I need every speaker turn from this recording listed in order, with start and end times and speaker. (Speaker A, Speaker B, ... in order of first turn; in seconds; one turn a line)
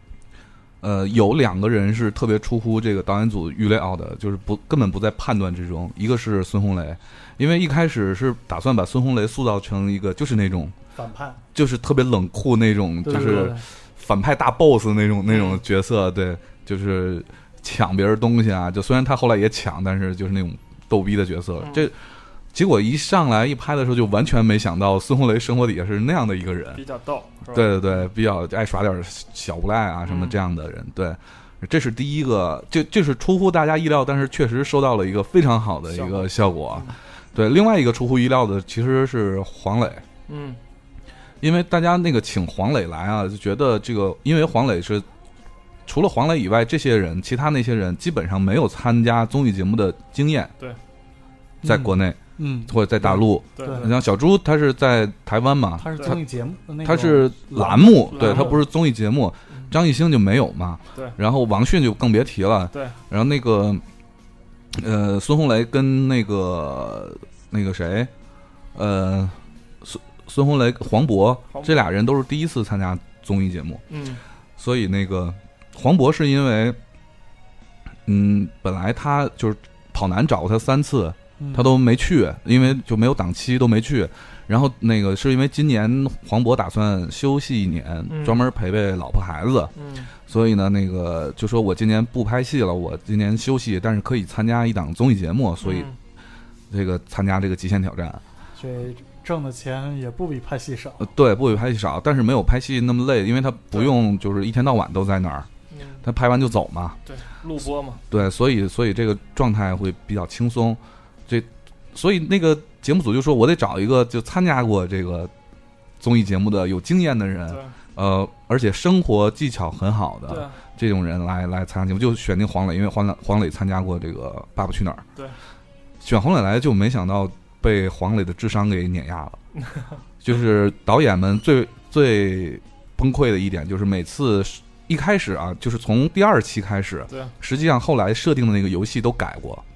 Speaker A: 0.8-10.8
Speaker B: 10.9-11.4
Speaker A: 11.5-22.0
Speaker B: 13.1-13.6
Speaker C: 13.2-13.5
Speaker C: 15.3-15.6
Speaker C: 21.6-21.9
Speaker A: 22.5-26.8
Speaker C: 26.7-28.1
Speaker A: 27.5-40.0
Speaker C: 30.1-30.4
Speaker C: 35.9-37.0
Speaker C: 40.3-40.6
Speaker A: 41.4-45.1
Speaker A: 45.9-50.5
Speaker B: 51.6-53.9
Speaker A: 51.6-56.2
Speaker C: 53.6-53.9
Speaker B: 55.8-58.6
Speaker A: 56.8-63.8
Speaker C: 58.1-58.6
Speaker C: 62.7-63.0
Speaker A: 64.7-68.1
Speaker A: 68.7-73.8
Speaker C: 71.5-71.9
Speaker C: 73.9-74.2
Speaker A: 74.6-76.8
Speaker A: 78.1-89.7
Speaker B: 81.4-81.7
Speaker C: 88.1-88.5
Speaker C: 89.8-90.1
Speaker A: 90.3-95.9
Speaker C: 95.6-96.0
Speaker A: 96.7-98.2
Speaker B: 98.6-101.1
Speaker A: 101.0-105.5
Speaker C: 105.7-106.0
Speaker A: 106.0-107.0
Speaker C: 107.1-108.0
Speaker A: 108.1-115.3
Speaker A: 116.0-125.0
Speaker C: 117.5-117.8
Speaker C: 120.3-120.6
Speaker A: 126.0-129.4
Speaker C: 129.6-130.0
Speaker A: 130.2-139.6